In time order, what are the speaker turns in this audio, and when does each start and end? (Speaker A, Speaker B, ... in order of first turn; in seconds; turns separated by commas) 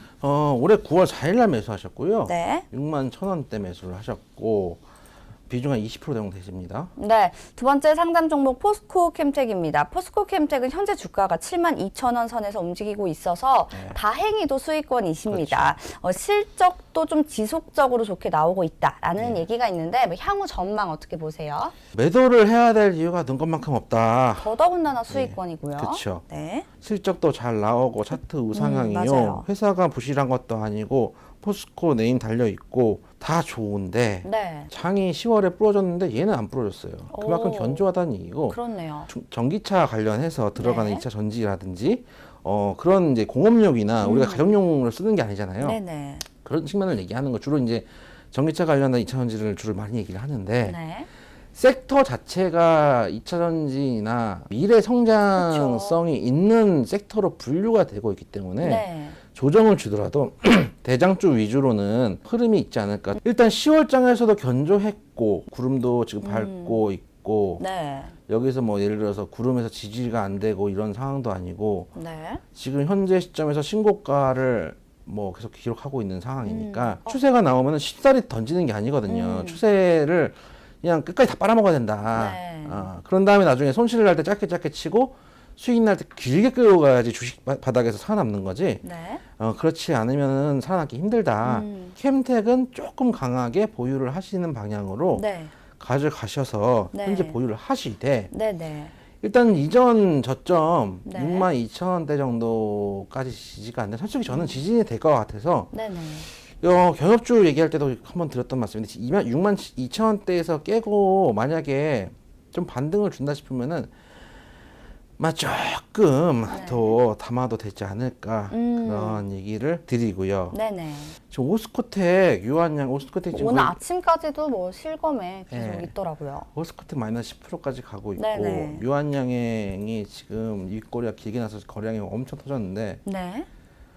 Speaker A: 0.2-4.8, Speaker B: 2.3-2.6, Speaker A: 5.5-6.9, Speaker B: 7.0-21.7, Speaker A: 13.7-14.0, Speaker A: 15.3-15.8, Speaker A: 19.2-19.5, Speaker A: 21.9-24.5, Speaker B: 24.4-26.7, Speaker A: 25.1-26.2, Speaker A: 26.8-45.8, Speaker B: 28.5-29.5, Speaker B: 34.2-34.7, Speaker B: 37.1-37.9, Speaker B: 38.5-39.1, Speaker B: 40.6-41.0, Speaker B: 44.0-44.5, Speaker B: 45.6-46.2, Speaker A: 46.4-50.8, Speaker B: 50.6-51.1, Speaker A: 51.5-67.6, Speaker B: 55.4-56.0, Speaker B: 58.6-59.2, Speaker B: 66.2-66.8, Speaker B: 67.6-68.1, Speaker A: 68.3-71.9, Speaker B: 72.0-72.4, Speaker A: 72.5-88.8, Speaker B: 76.4-77.2, Speaker B: 79.1-79.6, Speaker B: 82.1-82.9, Speaker B: 88.8-89.2, Speaker A: 89.4-95.3, Speaker B: 91.4-92.0, Speaker B: 95.1-95.5, Speaker A: 95.8-98.3, Speaker B: 96.9-97.4, Speaker B: 98.3-98.9, Speaker A: 99.2-105.7, Speaker B: 101.0-101.5, Speaker B: 104.3-104.6, Speaker B: 105.7-106.3, Speaker A: 106.3-113.9, Speaker A: 115.2-120.6, Speaker B: 116.5-117.0, Speaker B: 118.5-119.2, Speaker B: 120.5-121.2, Speaker A: 121.3-123.8, Speaker B: 123.3-126.5, Speaker A: 125.5-125.9, Speaker A: 126.5-133.0, Speaker B: 128.2-128.8, Speaker B: 133.1-133.5